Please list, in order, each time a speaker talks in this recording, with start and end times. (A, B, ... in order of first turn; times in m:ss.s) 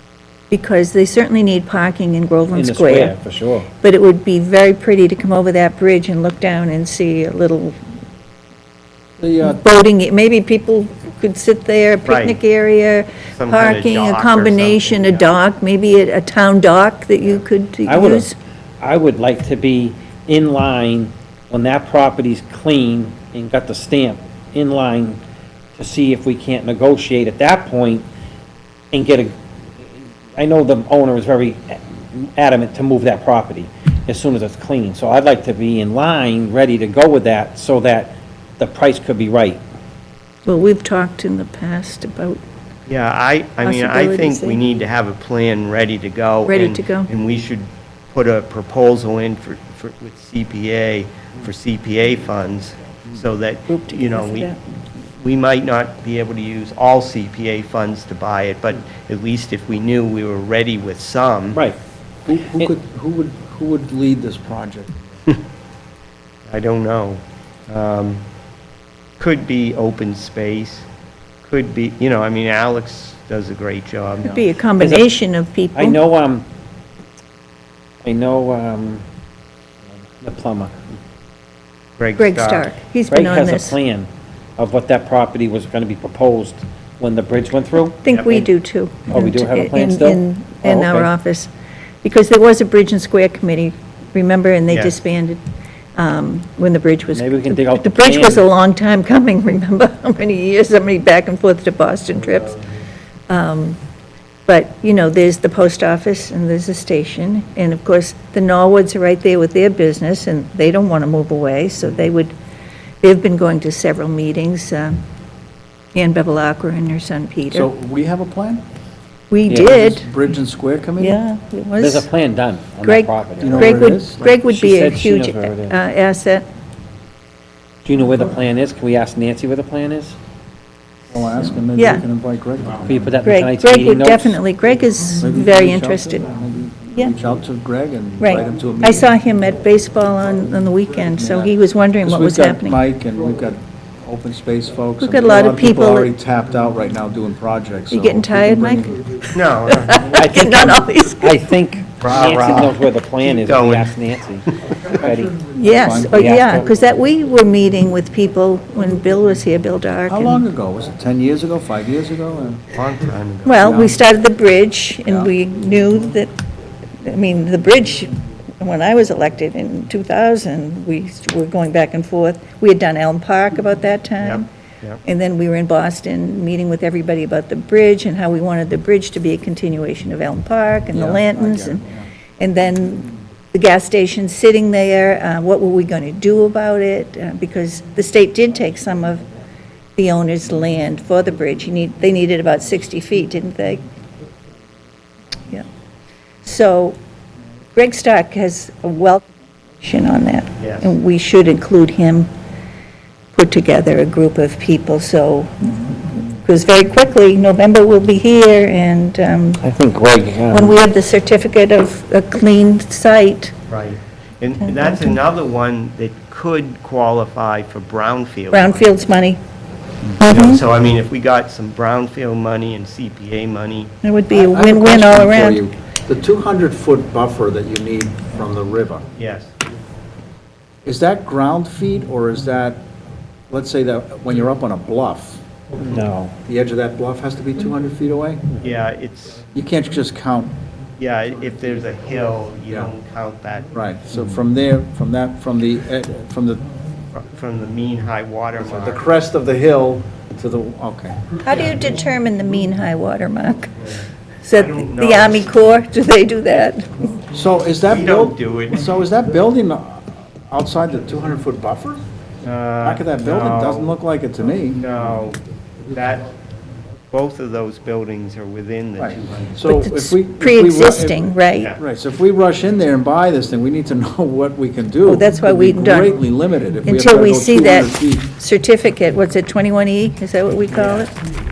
0:00.5-0:03.1 A
0:02.5-0:03.7 B
0:03.8-0:07.8 A
0:09.2-0:09.6 C
0:09.4-0:18.3 A
0:12.0-0:12.4 D
0:13.3-0:15.3 D
0:17.8-0:18.3 B
0:18.8-0:25.2 B
0:25.8-0:28.0 B
0:28.9-0:29.3 B
0:29.8-0:39.6 B
0:40.4-0:42.4 A
0:42.9-0:54.5 D
0:43.6-0:44.6 A
0:46.5-0:47.1 A
0:53.7-0:54.6 A
0:55.2-1:01.6 D
1:02.2-1:05.1 C
1:06.5-1:08.2 D
1:09.2-1:10.8 D
1:11.4-1:14.5 D
1:14.2-1:16.0 A
1:14.8-1:15.1 B
1:15.7-1:16.4 B
1:18.0-1:19.0 B
1:19.9-1:20.8 B
1:22.0-1:22.7 D
1:22.2-1:23.8 A
1:23.1-1:28.5 B
1:28.0-1:31.5 A
1:29.1-1:31.1 B
1:32.0-1:35.4 A
1:34.7-1:35.0 D
1:36.0-1:42.6 A
1:37.1-1:38.4 B
1:43.3-1:43.8 A
1:44.5-1:52.3 A
1:53.0-1:55.0 A
1:55.9-1:57.7 A
1:57.5-1:58.6 C
1:59.3-2:00.1 A
1:59.5-1:59.8 B
1:59.6-2:01.2 C
2:01.0-2:02.1 A
2:01.8-2:05.8 B
2:02.8-2:06.4 A
2:03.4-2:04.2 C
2:07.8-2:10.2 B
2:11.1-2:13.0 C
2:11.8-2:12.0 A
2:12.8-2:14.4 B
2:13.2-2:16.3 A
2:15.2-2:19.1 C
2:18.2-2:22.8 A
2:22.0-2:28.9 C
2:25.0-2:26.1 A
2:27.9-2:31.4 A
2:29.3-2:30.1 D
2:30.1-2:35.5 B
2:32.0-2:34.0 D
2:35.5-2:40.4 A
2:35.6-2:36.3 C
2:36.0-2:36.7 B
2:40.1-2:42.6 C
2:42.7-2:43.8 D
2:43.4-2:46.3 A
2:43.6-2:44.0 C
2:45.0-2:45.3 C
2:47.0-2:54.5 A
2:54.2-2:55.0 D
2:55.0-3:01.8 A
3:00.9-3:02.0 C
3:02.4-3:09.2 A
3:10.0-3:13.8 A
3:16.4-3:17.0 A
3:17.7-3:22.3 A
3:20.6-3:21.0 D
3:23.3-3:29.6 A
3:29.6-3:30.8 B
3:30.5-3:33.5 A
3:33.7-3:38.9 D
3:38.5-3:39.4 A
3:40.2-3:40.6 A
3:40.2-3:43.9 D
3:44.0-3:45.6 A
3:44.3-3:49.0 C
3:49.2-3:49.5 D
3:50.8-3:52.8 C
3:53.5-3:55.4 C
3:55.8-3:56.3 B
3:56.4-3:58.4 C
3:58.6-3:59.5 D
3:59.5-4:00.5 C
4:01.0-4:03.7 D
4:03.7-4:06.6 C
4:07.1-4:09.0 D
4:08.6-4:11.2 C
4:11.4-4:13.8 A
4:13.8-4:15.8 D
4:14.4-4:17.1 A
4:17.3-4:22.0 C
4:17.8-4:18.9 D
4:22.4-4:23.9 D
4:22.8-4:24.8 C
4:24.7-4:26.3 D
4:27.1-4:29.6 D
4:29.0-4:38.3 C
4:29.6-4:31.7 A
4:35.0-4:36.2 A
4:36.8-4:41.1 A
4:40.7-4:41.1 D